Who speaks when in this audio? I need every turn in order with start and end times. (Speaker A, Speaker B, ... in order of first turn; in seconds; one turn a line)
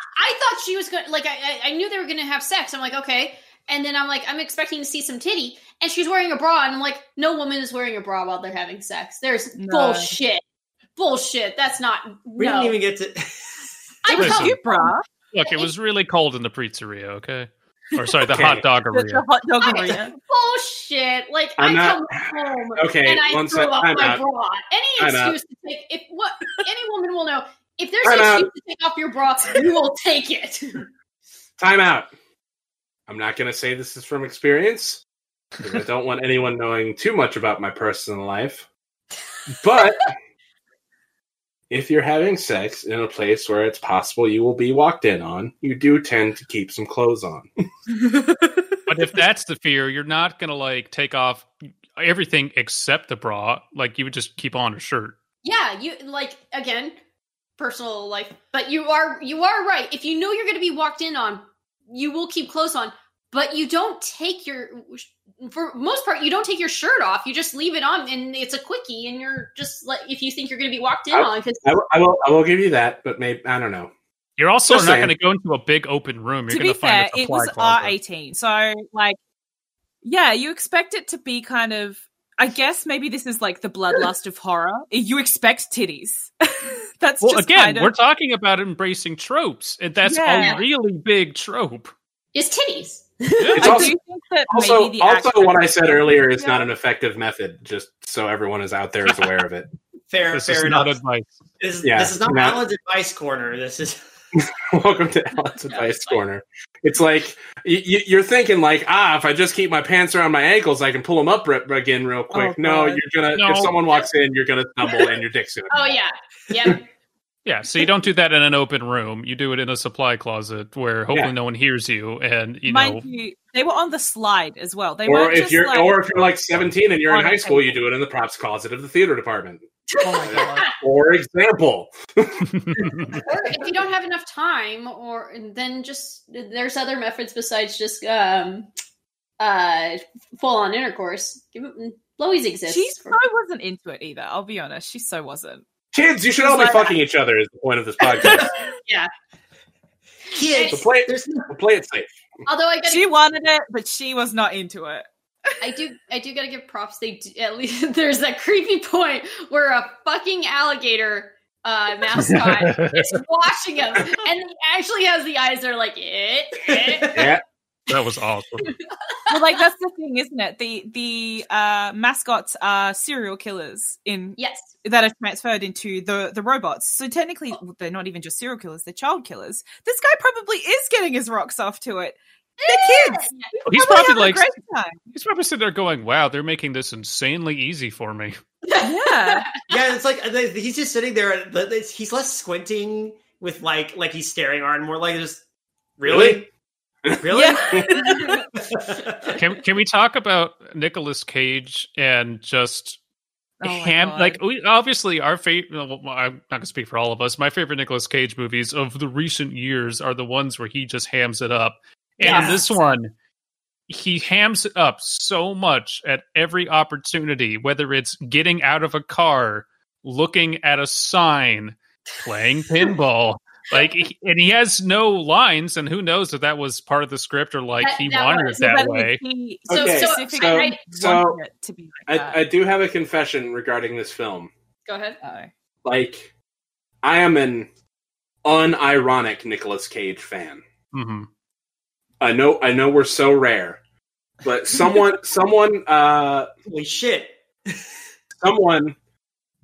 Speaker A: 0.2-10.4
Speaker B: 9.6-10.2
Speaker A: 11.0-12.8
Speaker C: 12.4-13.7
Speaker A: 14.0-15.7
Speaker B: 14.1-15.1
Speaker D: 14.2-14.6
Speaker D: 15.3-19.2
Speaker E: 18.3-18.7
Speaker B: 18.9-20.2
Speaker A: 19.6-30.9
Speaker E: 21.6-24.2
Speaker E: 25.0-25.4
Speaker E: 28.0-28.5
Speaker E: 31.6-32.1
Speaker E: 33.1-35.0
Speaker E: 35.6-38.6
Speaker E: 39.5-40.1
Speaker E: 41.7-47.5
Speaker B: 48.1-48.5
Speaker D: 48.9-55.2
Speaker A: 55.4-57.0
Speaker A: 57.6-71.6
Speaker E: 71.1-73.9
Speaker D: 74.4-78.0
Speaker E: 74.7-75.1
Speaker B: 76.5-79.2
Speaker B: 80.0-87.9
Speaker D: 87.2-91.9
Speaker B: 90.0-90.7
Speaker A: 92.3-93.8
Speaker D: 93.4-93.9
Speaker B: 93.5-96.6
Speaker E: 93.6-94.0
Speaker E: 94.5-99.7
Speaker C: 100.1-101.0
Speaker D: 100.3-101.3
Speaker C: 101.6-104.0
Speaker E: 101.8-102.6
Speaker E: 104.3-115.9
Speaker A: 105.7-106.2
Speaker B: 112.3-113.0
Speaker D: 113.3-113.8
Speaker A: 115.7-116.8
Speaker D: 117.5-123.0
Speaker B: 122.7-126.0
Speaker E: 125.0-129.7
Speaker B: 127.1-127.8
Speaker A: 129.9-130.7
Speaker B: 130.0-130.7
Speaker E: 130.2-133.2
Speaker D: 132.5-133.2
Speaker A: 133.2-138.7
Speaker A: 139.4-143.2
Speaker B: 142.7-145.7
Speaker E: 145.9-148.5
Speaker B: 146.4-147.0
Speaker A: 148.8-149.1
Speaker C: 150.3-151.5
Speaker A: 150.5-150.8
Speaker E: 150.7-152.1
Speaker A: 152.5-153.1
Speaker B: 152.8-155.1
Speaker A: 155.6-167.3
Speaker D: 162.2-163.2
Speaker C: 166.7-167.3
Speaker E: 167.1-167.4
Speaker D: 167.9-168.7
Speaker B: 169.3-185.0
Speaker A: 174.4-174.7
Speaker A: 182.6-183.5
Speaker D: 183.7-184.6
Speaker D: 185.1-188.4
Speaker A: 188.7-189.6
Speaker B: 188.8-189.6
Speaker C: 189.6-195.4
Speaker C: 196.0-196.5
Speaker E: 196.1-196.4
Speaker E: 197.1-197.9
Speaker C: 197.2-199.4
Speaker B: 197.3-198.4
Speaker D: 199.4-203.0
Speaker B: 203.6-204.4
Speaker D: 203.6-213.1
Speaker A: 212.2-212.6
Speaker C: 212.3-212.6
Speaker B: 212.3-212.9
Speaker D: 213.9-229.2
Speaker A: 227.8-228.6
Speaker B: 228.6-232.4
Speaker E: 229.7-231.4
Speaker A: 229.7-230.8
Speaker E: 232.1-234.5
Speaker A: 234.9-235.2
Speaker B: 235.2-235.5
Speaker E: 235.8-236.3
Speaker E: 237.0-237.7
Speaker E: 238.4-240.6
Speaker D: 240.9-241.3
Speaker E: 242.2-243.8
Speaker E: 244.4-246.5
Speaker C: 246.7-247.9
Speaker E: 248.4-249.0